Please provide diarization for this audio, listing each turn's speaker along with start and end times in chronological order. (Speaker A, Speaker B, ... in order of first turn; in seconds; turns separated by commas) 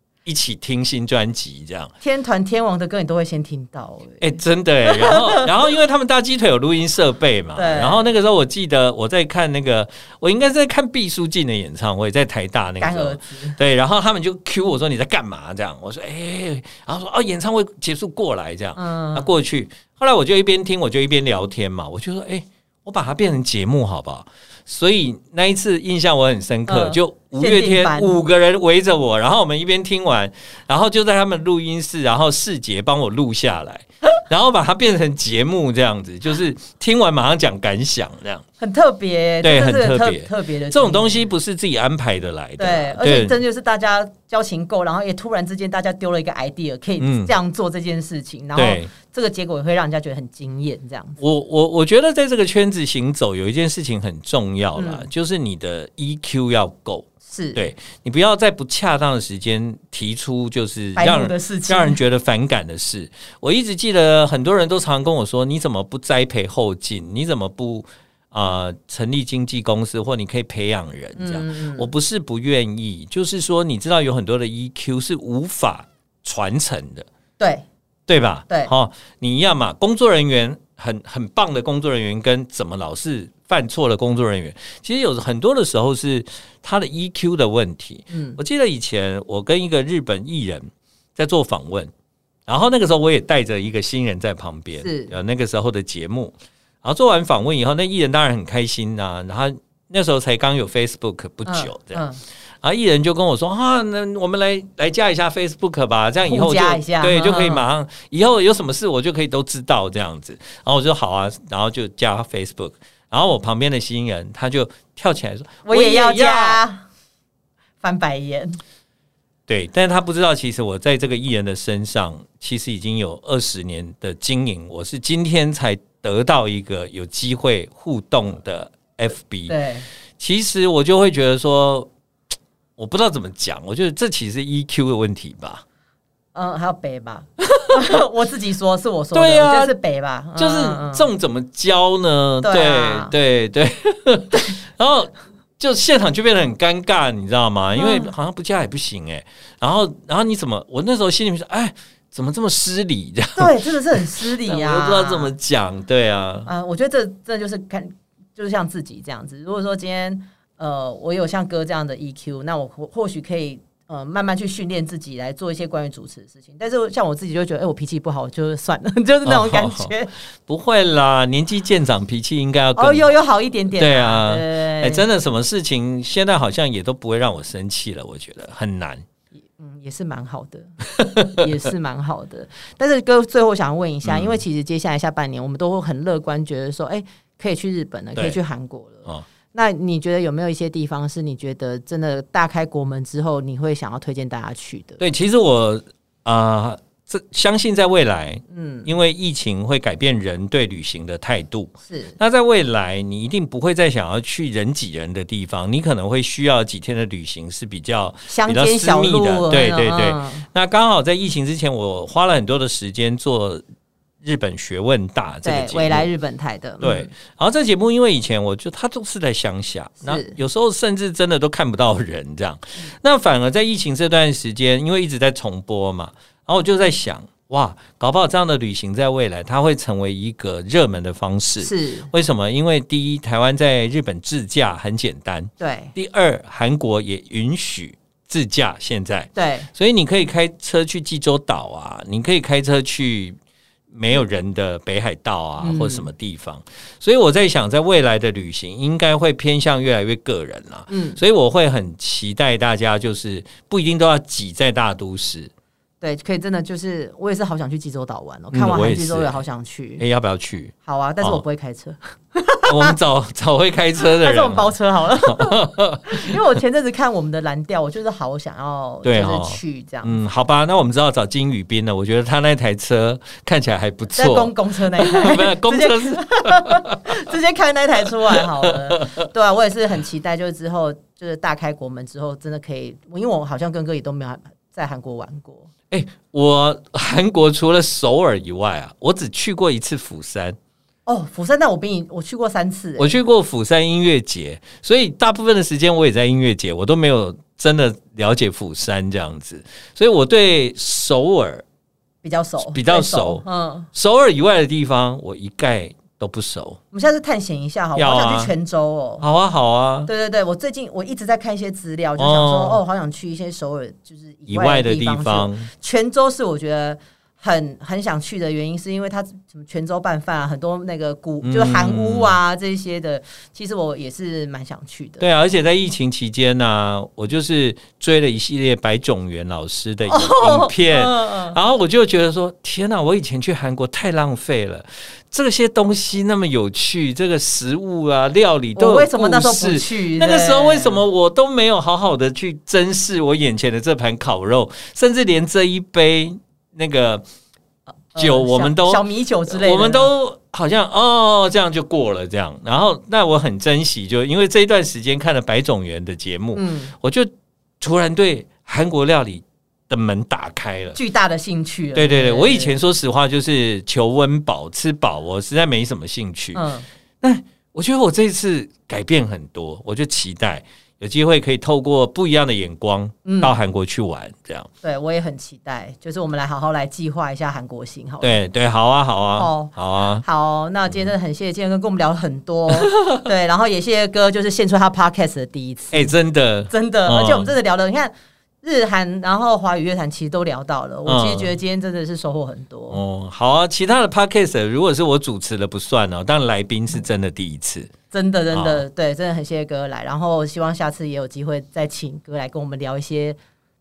Speaker A: 0.2-1.9, Speaker B: 2.0-5.5, Speaker A: 4.2-38.4, Speaker B: 7.5-8.1, Speaker B: 12.8-13.6, Speaker B: 18.8-19.3, Speaker B: 26.7-28.1, Speaker B: 38.6-41.3, Speaker A: 39.4-43.4, Speaker B: 42.6-51.2, Speaker A: 47.0-47.3, Speaker A: 48.5-48.9, Speaker A: 51.2-77.1, Speaker B: 54.8-55.1, Speaker B: 57.3-57.6, Speaker B: 61.0-62.0, Speaker B: 71.2-71.9, Speaker B: 77.4-77.6, Speaker A: 78.1-91.9, Speaker B: 88.1-88.4, Speaker A: 92.5-102.0, Speaker B: 94.8-95.1, Speaker B: 101.5-102.2, Speaker A: 102.6-116.6, Speaker B: 106.2-107.7, Speaker B: 115.7-116.8, Speaker B: 117.8-118.6, Speaker A: 119.5-129.5, Speaker B: 129.5-129.8, Speaker A: 130.2-131.9, Speaker A: 132.8-135.6, Speaker B: 136.3-141.1, Speaker A: 139.1-139.7, Speaker A: 140.4-156.5, Speaker B: 142.4-143.1, Speaker B: 147.8-148.1, Speaker B: 153.3-155.3, Speaker B: 156.4-170.1, Speaker A: 169.2-169.9, Speaker A: 170.5-173.1, Speaker B: 172.8-175.1, Speaker A: 173.7-179.0, Speaker B: 179.5-195.0, Speaker A: 184.0-184.4, Speaker A: 195.0-213.6, Speaker B: 198.5-198.9, Speaker B: 201.9-202.2, Speaker B: 208.3-210.5, Speaker A: 214.2-216.1, Speaker B: 215.4-217.1, Speaker A: 216.8-243.4, Speaker B: 220.0-220.4, Speaker B: 231.6-232.1, Speaker B: 235.6-235.9, Speaker B: 239.3-239.7, Speaker A: 243.9-255.5, Speaker B: 245.6-246.1, Speaker B: 250.9-251.2, Speaker B: 256.0-260.0, Speaker A: 258.5-259.4, Speaker A: 260.0-261.4, Speaker B: 260.8-262.9, Speaker A: 262.6-266.4, Speaker B: 264.0-270.2, Speaker A: 269.0-277.1, Speaker B: 274.1-285.7, Speaker A: 278.1-279.3, Speaker A: 285.9-290.6, Speaker B: 291.1-293.2, Speaker A: 293.0-301.6, Speaker B: 302.2-303.9, Speaker A: 302.7-306.8, Speaker B: 306.9-309.2, Speaker A: 307.9-308.5, Speaker A: 309.2-310.1, Speaker B: 310.1-325.2, Speaker A: 312.2-312.8, Speaker A: 314.5-315.7, Speaker A: 321.4-322.4, Speaker A: 325.2-347.2, Speaker B: 330.1-331.6, Speaker B: 338.8-341.0, Speaker B: 348.1-350.1, Speaker A: 348.1-361.0, Speaker B: 356.5-356.9, Speaker B: 360.9-362.8, Speaker A: 361.9-366.6, Speaker B: 366.5-366.9, Speaker A: 367.2-374.7, Speaker B: 373.2-373.5, Speaker B: 374.8-378.4, Speaker A: 378.2-380.2, Speaker B: 379.4-386.1, Speaker A: 382.7-383.2, Speaker A: 385.9-387.5, Speaker B: 386.7-393.0, Speaker A: 391.1-391.5, Speaker A: 392.9-397.9, Speaker B: 398.1-403.4, Speaker A: 398.5-398.8